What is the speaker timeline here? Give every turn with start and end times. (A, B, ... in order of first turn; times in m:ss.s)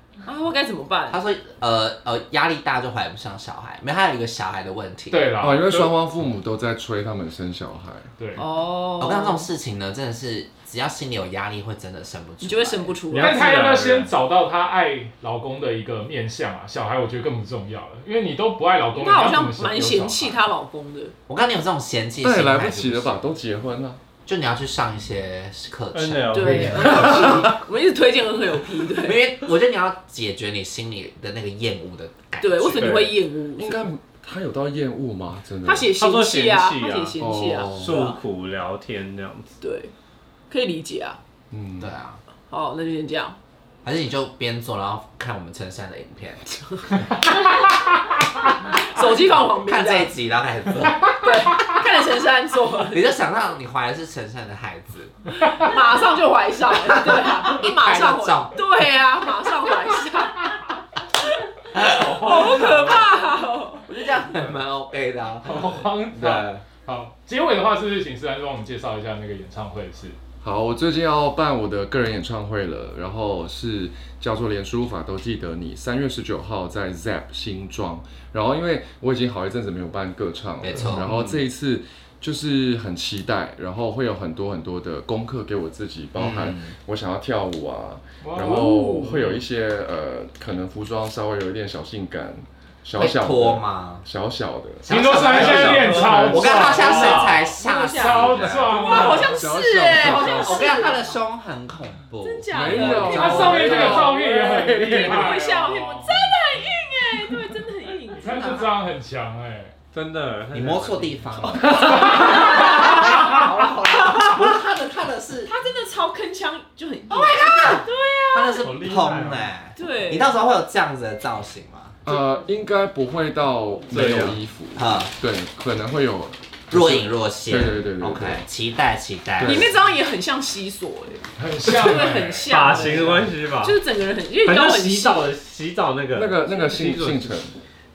0:00.2-0:01.2 A
0:01.1-0:05.3 B
0:05.1-0:05.7 C
0:05.4-0:08.1 D
0:08.2-0:08.4 C
0:08.4-0:09.4 A
0:09.0-0:13.0 B
0:12.4-0:13.5 A
0:13.1-0:14.1 E
0:13.1-0:20.4 C
0:18.9-0:21.1 A
0:21.3-0:23.2 B
0:22.2-0:24.0 D
0:24.2-0:27.5 B
0:25.9-0:27.1 E
0:26.3-0:29.2 A
0:26.9-0:27.4 D
0:29.0-0:33.0 B
0:32.4-0:33.8 A
0:32.8-0:33.1 E
0:33.5-0:35.9 D
0:35.6-0:38.2 A
0:36.0-0:39.5 E
0:37.2-0:38.0 D
0:39.6-0:39.9 A
0:40.5-0:41.2 A
0:41.5-0:41.9 D
0:41.8-0:42.2 B
0:42.5-0:43.4 A
0:43.8-0:47.2 B
0:46.6-0:47.3 A
0:48.6-0:50.1 A
0:49.6-0:51.2 B
0:51.1-0:53.2 A
0:52.9-0:55.2 B
0:55.4-1:00.6 A
0:56.7-0:58.6 B
1:01.7-1:02.7 B
1:01.9-1:02.7 C
1:02.1-1:03.9 A
1:03.9-1:06.6 B
1:05.4-1:10.2 C
1:10.4-1:34.9 D
1:20.6-1:21.1 B
1:21.0-1:21.4 E
1:26.2-1:26.7 B
1:28.2-1:28.7 C
1:28.4-1:29.3 A
1:29.0-1:29.4 E
1:33.0-1:34.0 B
1:34.8-1:39.3 B
1:34.9-1:39.4 C
1:35.1-1:36.8 E
1:36.7-1:41.1 A
1:39.0-1:40.8 D
1:40.0-1:44.0 B
1:42.2-1:44.2 A
1:42.5-1:45.4 D
1:43.1-1:46.1 C
1:44.8-1:48.7 A
1:48.1-1:49.7 C
1:49.9-1:51.6 E
1:50.5-1:55.5 B
1:51.7-1:52.8 C
1:51.7-1:53.7 A
1:55.5-1:58.7 A
1:57.1-2:02.0 B
1:58.6-1:59.5 E
1:59.8-2:00.3 A
2:02.0-2:08.4 D
2:03.9-2:04.4 E
2:04.7-2:05.1 B
2:06.7-2:09.7 B
2:09.4-2:09.8 D
2:09.4-2:15.3 A
2:11.4-2:13.2 C
2:11.7-2:13.8 E
2:14.4-2:17.4 E
2:16.1-2:17.5 D